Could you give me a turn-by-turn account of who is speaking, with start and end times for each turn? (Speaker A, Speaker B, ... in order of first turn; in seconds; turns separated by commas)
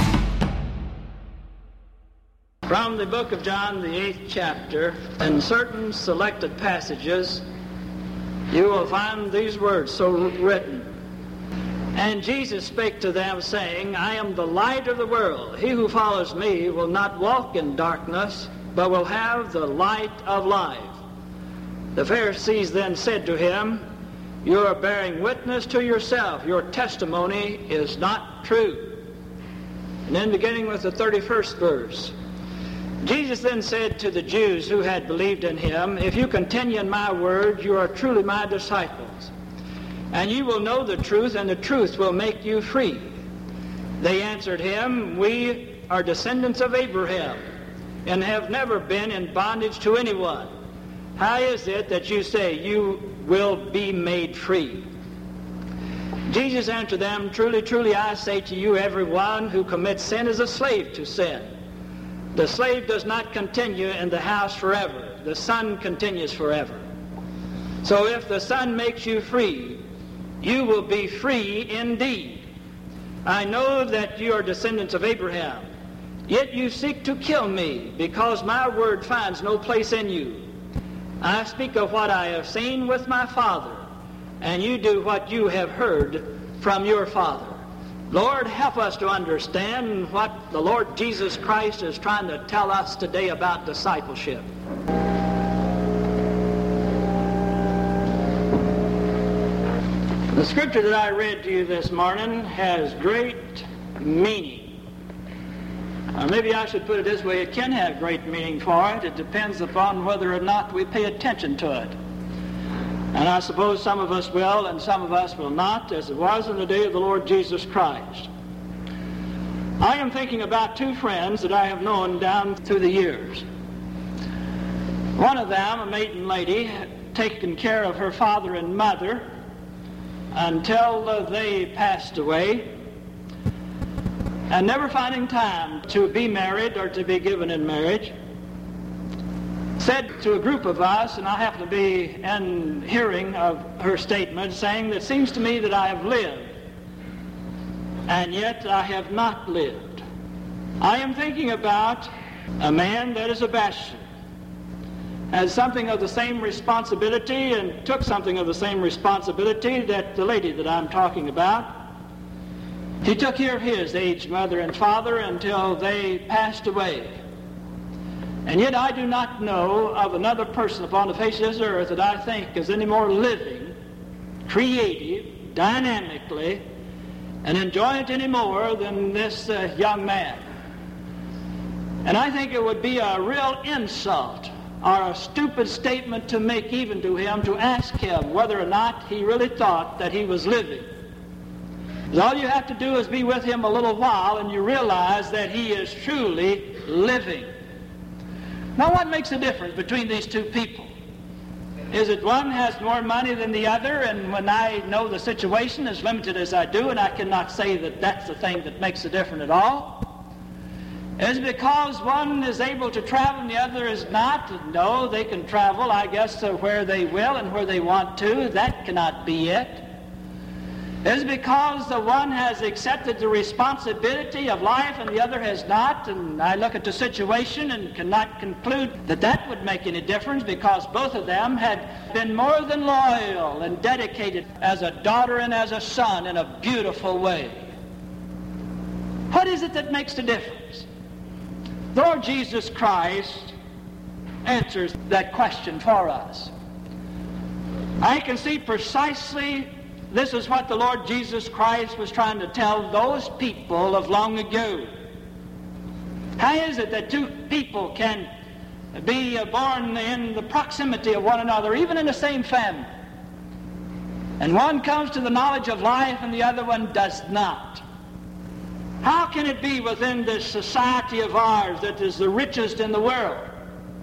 Speaker A: 2.7-7.4, Speaker A: 8.5-10.9, Speaker A: 11.9-21.0, Speaker A: 21.9-23.8, Speaker A: 24.4-29.0, Speaker A: 30.1-32.1, Speaker A: 33.0-39.3, Speaker A: 40.1-43.1, Speaker A: 44.0-47.4, Speaker A: 48.0-50.5, Speaker A: 51.2-54.9, Speaker A: 56.3-61.5, Speaker A: 62.4-66.8, Speaker A: 67.8-69.8, Speaker A: 70.4-72.4, Speaker A: 73.2-75.6, Speaker A: 76.3-80.4, Speaker A: 81.2-83.8, Speaker A: 84.4-87.6, Speaker A: 88.1-94.5, Speaker A: 100.3-104.8, Speaker A: 106.1-111.9, Speaker A: 113.1-118.3, Speaker A: 119.8-123.4, Speaker A: 125.2-129.3, Speaker A: 130.3-132.7, Speaker A: 134.5-138.1, Speaker A: 139.8-146.5, Speaker A: 148.1-150.0, Speaker A: 150.8-152.1, Speaker A: 152.6-154.0, Speaker A: 155.3-161.8, Speaker A: 163.0-167.1, Speaker A: 168.4-173.7, Speaker A: 174.4-176.6, Speaker A: 177.4-180.4, Speaker A: 182.0-190.8, Speaker A: 192.1-197.5, Speaker A: 198.8-200.9, Speaker A: 201.9-210.1, Speaker A: 211.2-219.9, Speaker A: 221.0-237.7, Speaker A: 239.3-240.8, Speaker A: 241.9-243.5, Speaker A: 244.4-246.5, Speaker A: 248.0-254.9, Speaker A: 256.4-258.3, Speaker A: 258.9-262.9, Speaker A: 264.4-267.8, Speaker A: 269.0-273.5